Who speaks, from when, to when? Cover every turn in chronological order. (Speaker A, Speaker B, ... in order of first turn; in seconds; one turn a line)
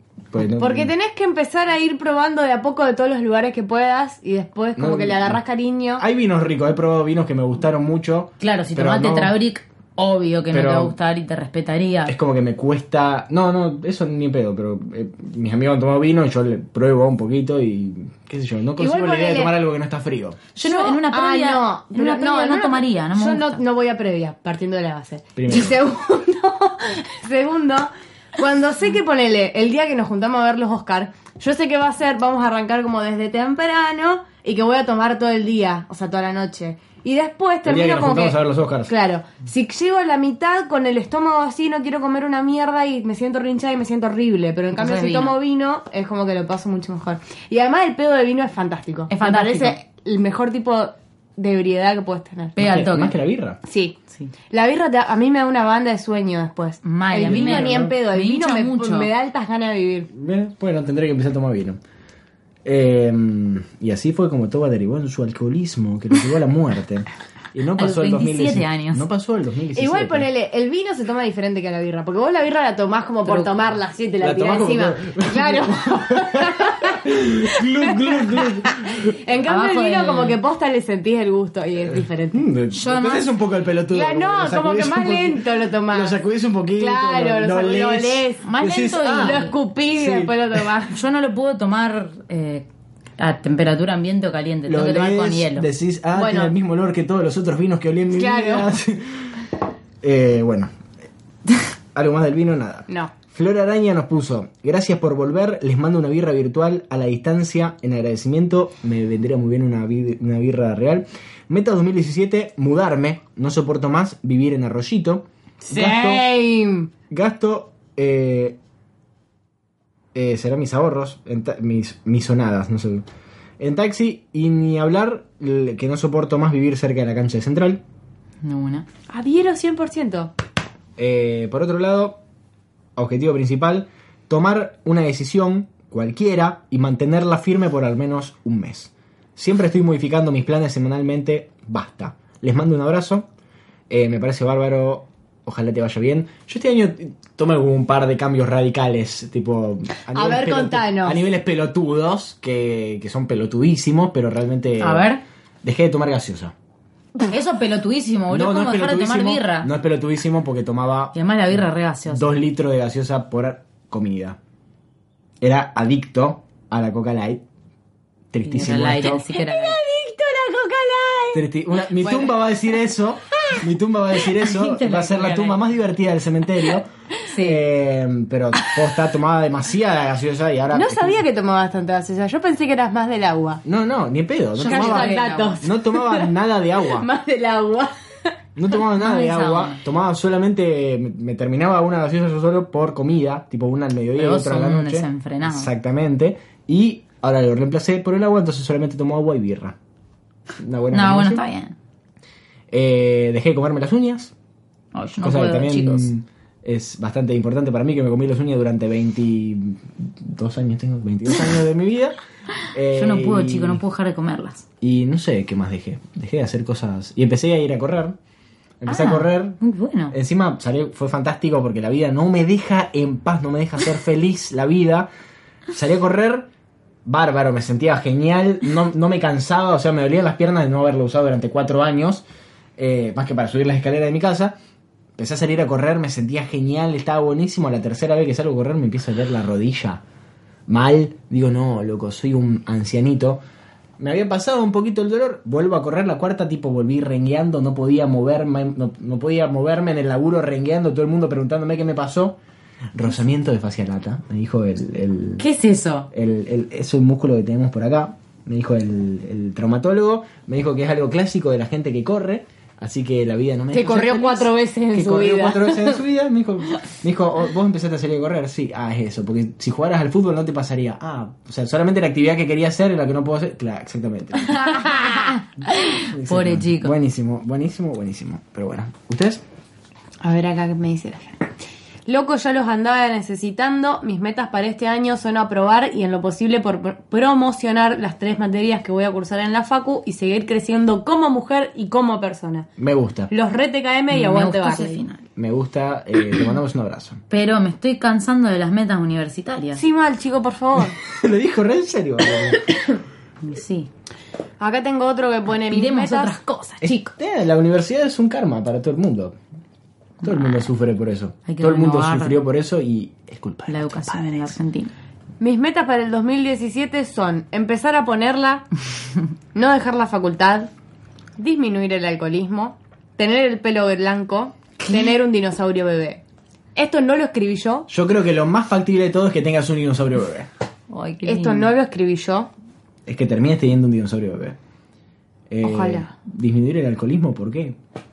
Speaker A: 0.3-0.9
Speaker B: 0.5-6.0
Speaker A: 4.8-5.4
Speaker A: 6.0-9.4
Speaker C: 8.4-12.1
Speaker A: 10.5-10.9
Speaker A: 12.1-20.4
Speaker B: 18.8-19.6
Speaker C: 20.6-23.6
Speaker B: 20.6-52.6
Speaker A: 25.4-25.8
Speaker A: 37.6-38.9
Speaker C: 44.8-45.4
Speaker C: 49.1-49.8
Speaker C: 52.6-53.1
Speaker A: 52.6-53.6
Speaker B: 53.6-54.0
Speaker B: 54.5-60.1
Speaker C: 56.8-59.1
Speaker A: 57.2-58.0
Speaker A: 60.1-61.8
Speaker A: 62.6-70.3
Speaker C: 67.8-69.1
Speaker B: 69.8-82.5
Speaker C: 73.3-73.5
Speaker A: 74.2-79.1
Speaker C: 79.5-80.4
Speaker A: 81.9-89.4
Speaker C: 82.7-83.3
Speaker B: 83.9-86.2
Speaker B: 86.8-88.5
Speaker C: 88.4-89.5
Speaker B: 89.0-91.0
Speaker A: 90.0-90.6
Speaker C: 90.9-92.6
Speaker C: 93.2-95.7
Speaker A: 94.7-99.4
Speaker B: 96.1-96.5
Speaker B: 98.1-98.8
Speaker A: 100.0-100.7
Speaker A: 101.9-116.2
Speaker B: 115.6-116.9
Speaker A: 117.1-118.6
Speaker A: 120.1-123.0
Speaker A: 123.6-127.8
Speaker C: 128.4-128.9
Speaker B: 129.1-130.3
Speaker A: 131.0-132.2
Speaker A: 133.0-143.3
Speaker A: 143.9-155.1
Speaker B: 150.1-151.2
Speaker C: 154.8-155.2
Speaker A: 155.6-156.5
Speaker C: 157.2-159.7
Speaker A: 158.3-164.4
Speaker C: 161.1-162.3
Speaker A: 165.4-167.4
Speaker A: 168.3-169.2
Speaker C: 168.4-169.8
Speaker B: 169.3-171.4
Speaker A: 171.3-181.2
Speaker B: 172.0-172.6
Speaker C: 174.4-175.6
Speaker C: 177.3-177.6
Speaker B: 180.7-183.6
Speaker A: 183.6-187.1
Speaker C: 184.6-185.6
Speaker B: 184.6-186.3
Speaker B: 186.8-187.9
Speaker A: 188.6-199.8
Speaker C: 188.9-189.8
Speaker C: 194.2-195.7
Speaker A: 200.6-201.4
Speaker C: 200.9-201.8
Speaker A: 202.7-204.3
Speaker C: 204.9-206.1
Speaker A: 205.2-212.2
Speaker A: 212.7-213.8
Speaker C: 212.9-214.6
Speaker A: 214.8-218.2
Speaker A: 218.8-219.6
Speaker C: 218.9-220.1
Speaker A: 220.1-225.1
Speaker A: 225.7-226.5
Speaker A: 227.1-232.2
Speaker A: 232.8-234.6
Speaker A: 235.2-240.0
Speaker A: 240.7-243.4
Speaker A: 244.0-252.4
Speaker A: 252.9-255.5
Speaker B: 255.4-256.0
Speaker A: 256.1-274.7
Speaker B: 263.7-266.0
Speaker C: 274.6-276.9
Speaker B: 274.7-275.3
Speaker A: 276.0-279.4
Speaker B: 280.2-281.4
Speaker B: 282.1-292.7
Speaker A: 292.8-293.3
Speaker B: 293.3-295.0
Speaker C: 294.1-295.2
Speaker A: 295.4-297.2
Speaker C: 297.3-299.8
Speaker B: 299.8-301.0
Speaker A: 301.0-302.6
Speaker C: 303.4-303.9
Speaker B: 304.6-306.4
Speaker C: 305.7-307.1
Speaker A: 306.8-309.4
Speaker A: 310.2-314.5
Speaker C: 310.2-310.6
Speaker C: 311.5-312.4
Speaker C: 313.7-314.9
Speaker B: 315.4-318.7
Speaker B: 319.5-320.7
Speaker B: 321.4-326.2
Speaker C: 324.8-325.1
Speaker B: 326.8-327.9
Speaker A: 327.9-330.5
Speaker C: 330.9-331.7
Speaker B: 331.2-332.5
Speaker A: 333.1-334.6
Speaker A: 335.5-337.8
Speaker B: 335.6-336.1